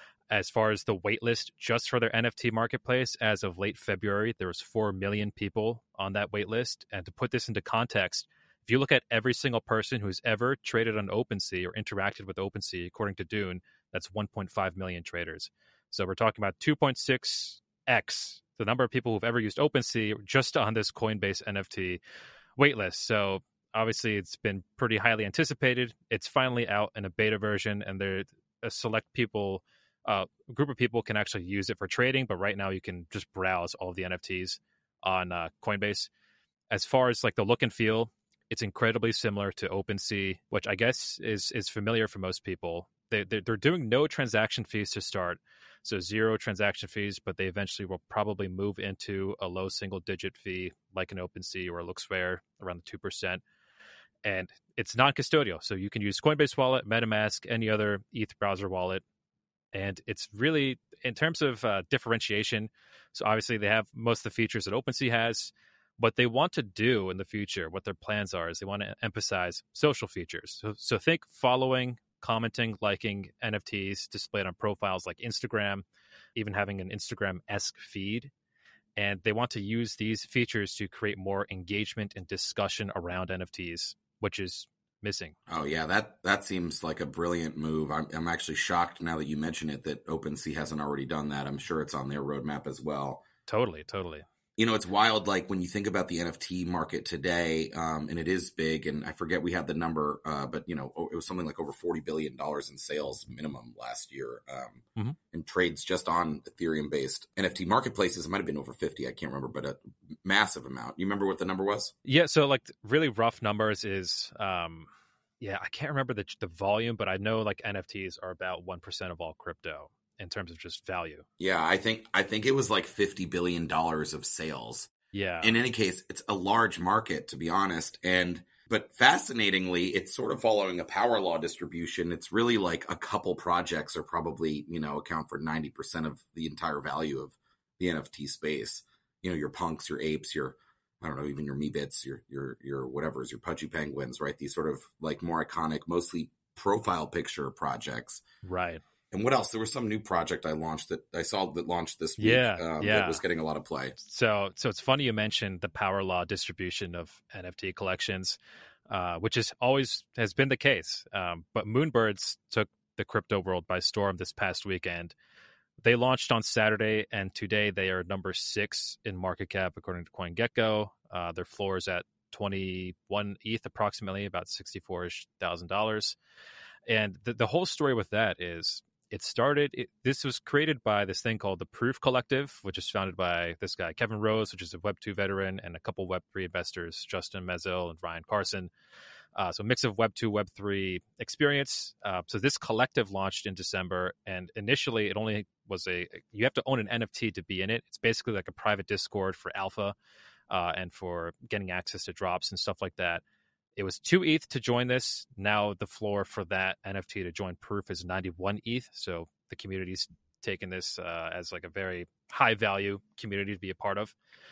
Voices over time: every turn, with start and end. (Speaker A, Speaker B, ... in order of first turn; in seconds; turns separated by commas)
Speaker A: 0.3-22.0, Speaker A: 22.6-36.1, Speaker A: 36.7-53.4, Speaker A: 54.2-59.0, Speaker A: 59.7-75.8, Speaker A: 76.3-78.3, Speaker A: 79.0-85.3, Speaker B: 85.5-93.2, Speaker A: 93.5-94.2, Speaker B: 94.6-111.9, Speaker A: 112.0-114.9, Speaker A: 115.4-121.2, Speaker B: 121.4-124.9, Speaker A: 125.1-125.5, Speaker B: 125.4-148.2, Speaker A: 148.4-148.8, Speaker B: 149.1-153.9, Speaker A: 152.2-153.2, Speaker A: 154.0-165.1, Speaker A: 165.8-176.2, Speaker A: 176.9-188.7, Speaker A: 189.3-199.9, Speaker A: 200.5-203.2, Speaker A: 203.8-214.1